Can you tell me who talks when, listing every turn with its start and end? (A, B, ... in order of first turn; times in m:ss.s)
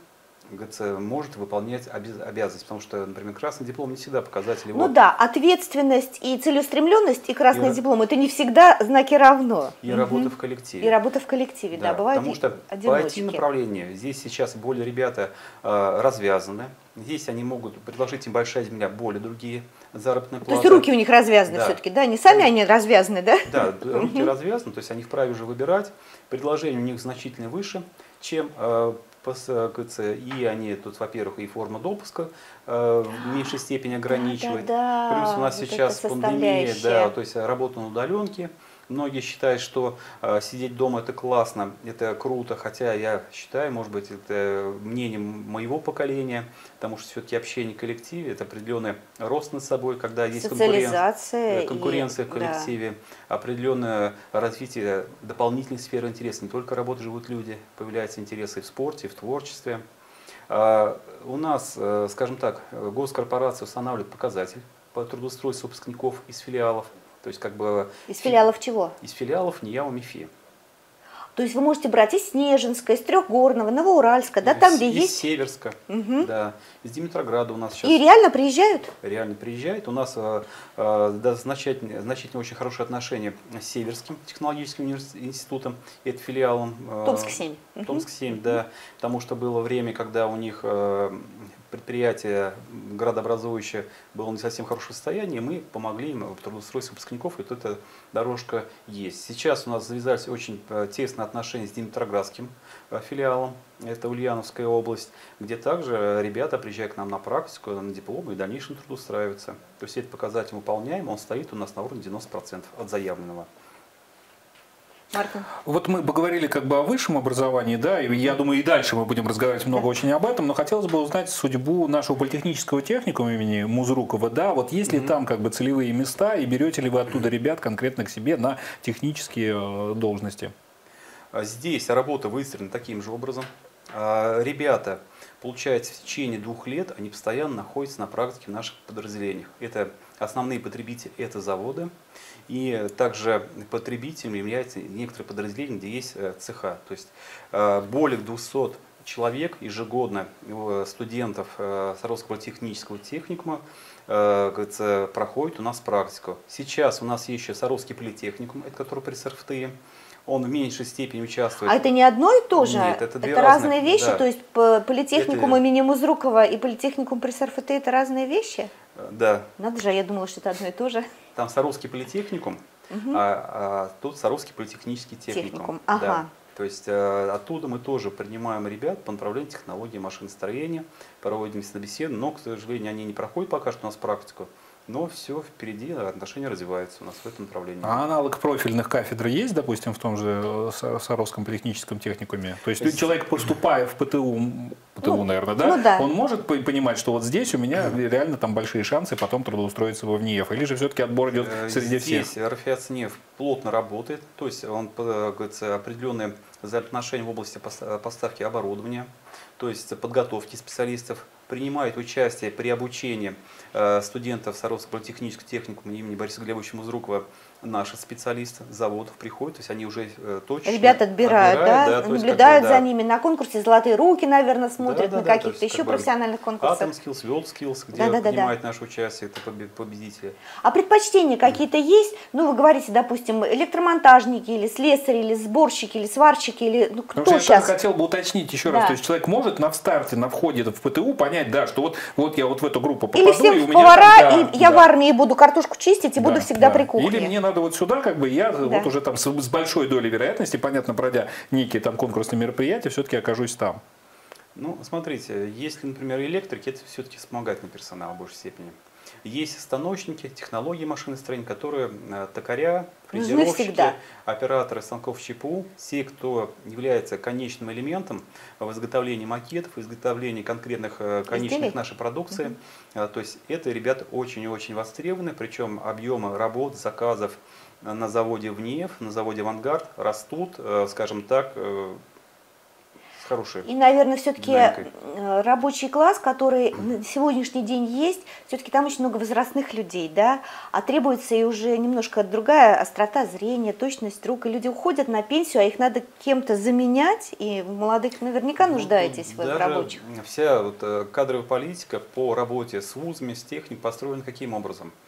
0:00.5-0:05.0 A
0:04.7-0:13.4 B
0:07.5-0:07.8 A
0:09.8-0:11.0 A
0:11.7-0:20.9 A
0:20.5-0:24.3 B
0:21.5-0:21.8 A
0:23.4-0:59.8 A
0:34.1-0:37.1 B
0:50.4-0:52.7 B
1:00.5-1:08.4 A
1:08.1-1:09.0 B
1:09.0-1:10.3 A
1:11.4-1:15.2 B
1:14.4-1:18.0 A
1:15.9-1:16.3 B
1:17.8-1:18.9 B
1:19.0-1:53.5 A
1:27.0-1:28.0 B
1:55.1-1:55.5 B
1:55.6-2:10.5 C
2:04.9-2:05.2 A
2:11.3-2:21.9 A
2:22.5-2:39.8 A
2:40.3-2:41.9 A
2:41.7-2:48.7 B
2:42.5-2:44.2 A
2:45.1-2:45.6 A
2:49.0-2:49.5 A
2:49.6-2:51.1 B
2:51.4-3:08.0 A
2:52.9-2:53.2 B
2:55.3-2:56.3 B
3:07.8-3:22.3 C
3:12.8-3:13.1 A
3:15.0-3:16.1 B
3:21.3-3:42.8 A
3:40.6-3:46.9 B
3:44.8-3:46.1 A
3:46.6-3:50.4 A
3:47.9-3:48.5 B
3:50.6-3:57.7 B
3:57.2-4:04.9 C
3:58.7-3:59.0 B
4:03.1-4:07.3 B
4:06.2-4:13.8 C
4:08.6-4:08.9 B
4:14.6-4:42.0 A
4:23.1-4:24.0 B
4:31.3-4:31.8 B
4:43.2-4:43.7 A
4:43.6-5:00.0 B
4:44.4-4:44.9 A
4:58.6-5:04.9 A